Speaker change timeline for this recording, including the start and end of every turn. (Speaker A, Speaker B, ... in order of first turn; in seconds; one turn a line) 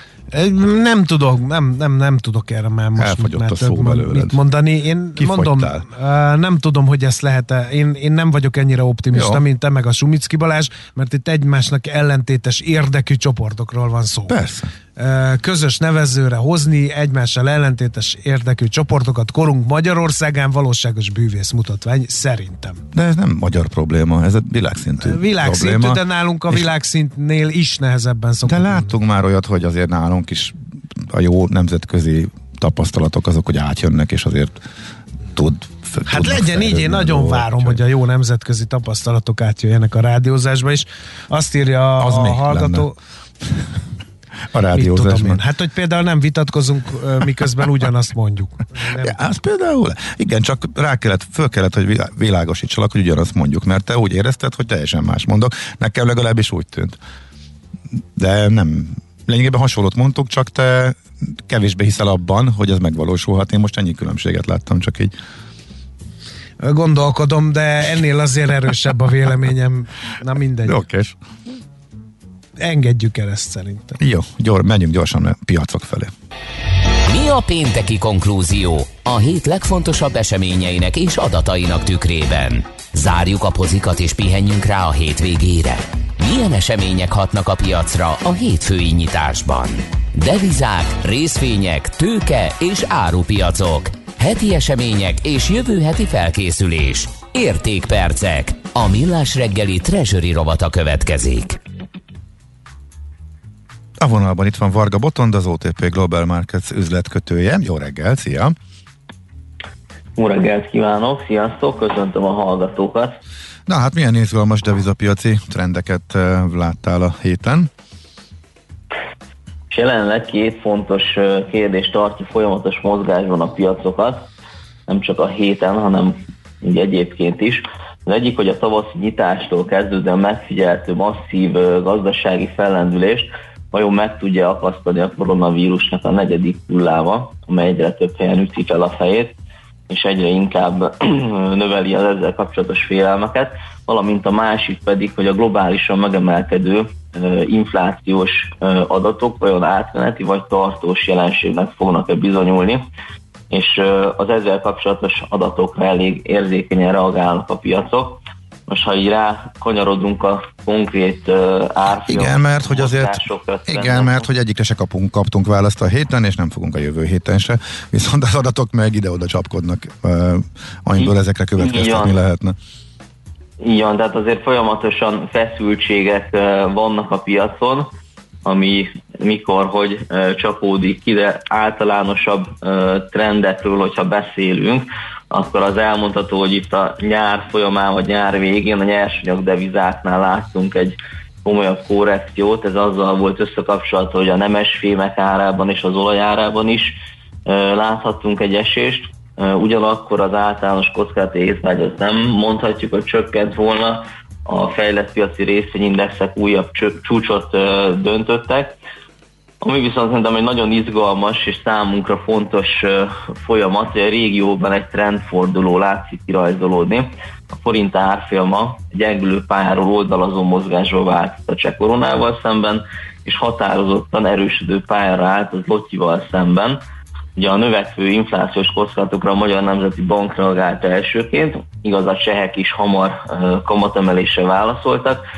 Speaker A: 0.3-14.3
Speaker B: 3.0-4.4
Speaker B: 5.2-5.8
Speaker B: 9.1-9.4
Speaker B: 14.3-14.7
Speaker A: 14.9-22.8
Speaker B: 22.9-26.6
Speaker A: 25.0-28.9
Speaker B: 28.4-34.6
Speaker B: 35.3-37.8
Speaker A: 36.1-43.0
Speaker B: 42.0-42.9
Speaker B: 44.5-45.4
Speaker A: 44.7-49.2
Speaker B: 49.0-57.0
Speaker B: 58.2-65.1
Speaker A: 66.6-70.8
Speaker B: 70.6-71.2
Speaker A: 72.6-74.0
Speaker B: 74.0-76.1
Speaker C: 77.1-101.6
Speaker B: 104.0-108.5
Speaker D: 110.2-113.2
Speaker B: 113.7-117.7
Speaker D: 119.7-124.3
Speaker D: 124.9-139.4
Speaker D: 139.9-152.9
Speaker D: 153.5-164.2
Speaker B: 162.1-172.6
Speaker D: 171.0-172.1
Speaker D: 173.6-177.9
Speaker D: 178.4-208.8
Speaker D: 209.6-226.8
Speaker D: 227.4-235.2